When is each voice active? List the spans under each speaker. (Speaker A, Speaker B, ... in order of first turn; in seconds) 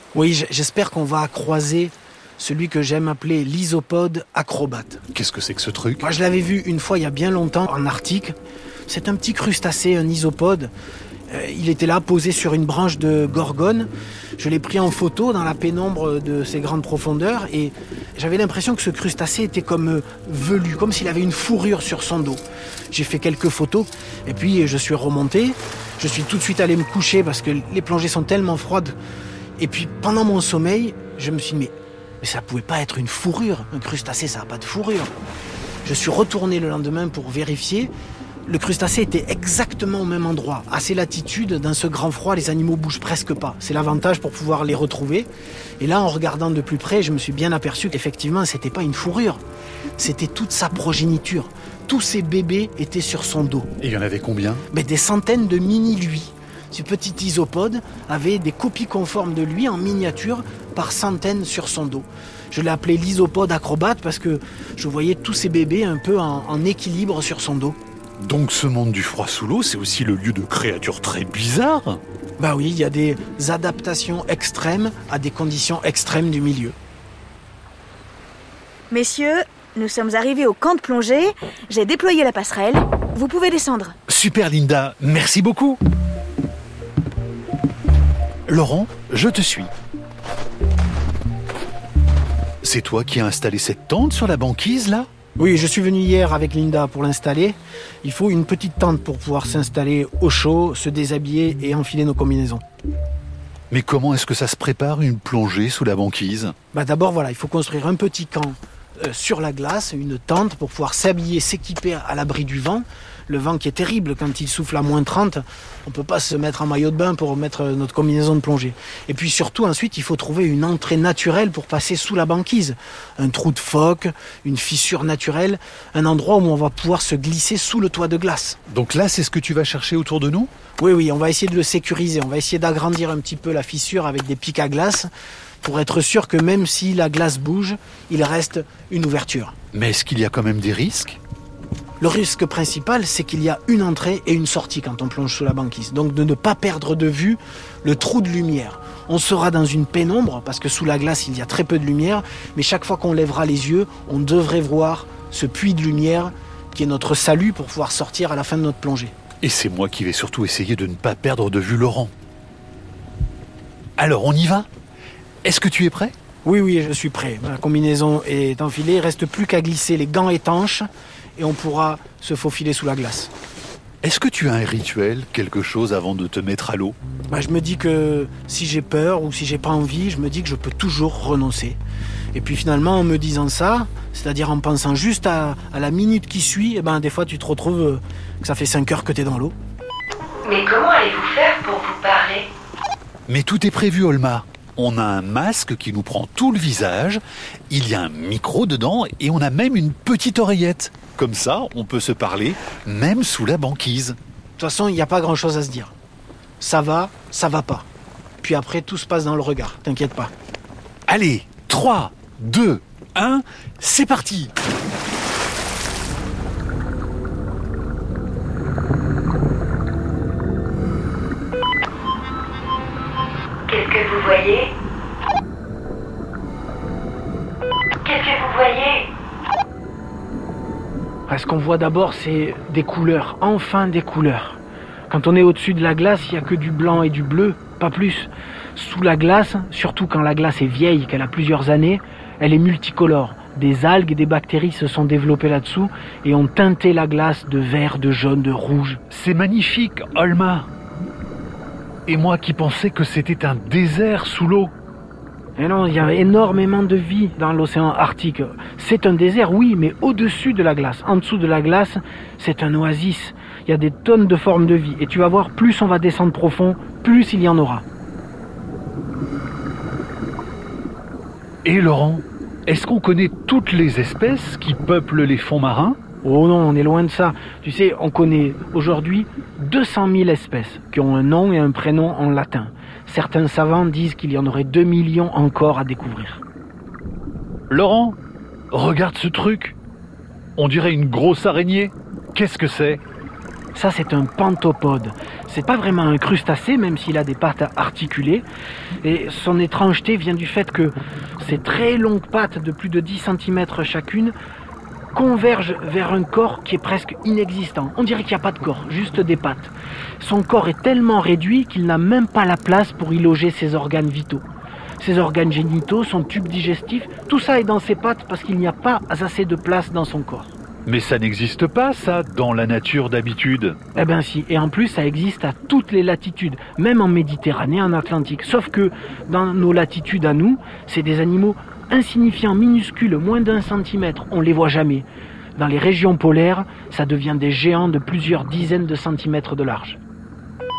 Speaker A: 0.1-5.0, 6.0-8.3, 8.9-10.7, 11.3-28.9, 29.6-35.1, 35.8-37.9, 38.5-45.3, 45.8-49.4, 50.0-53.7, 54.7-67.8, 72.4-76.7, 95.4-102.6, 106.7-128.6, 130.8-135.1, 135.6-139.5, 142.0-159.1, 166.4-173.3, 177.3-181.8, 182.3-189.5, 204.6-205.9, 206.6-207.8, 208.4-210.3, 231.3-249.0, 255.6-267.8, 276.2-286.4, 293.7-298.4, 299.0-304.3, 305.1-314.4, 315.0-320.5, 323.9-335.1, 335.6-340.0
Speaker B: 5.1-6.0, 53.8-54.6, 68.2-72.0, 84.1-85.8, 88.5-89.7, 92.6-95.1, 103.7-106.5, 128.7-130.5, 139.7-141.2, 159.4-162.1, 164.0-164.7, 165.4-166.1, 174.0-176.9, 193.3-204.2, 211.1-214.5, 249.1-250.7, 252.1-254.7, 271.6-276.0, 287.7-288.2, 288.7-289.8, 290.6-293.0, 320.9-323.8
Speaker C: 78.9-83.9
Speaker D: 190.4-192.5, 223.7-224.7, 228.0-229.1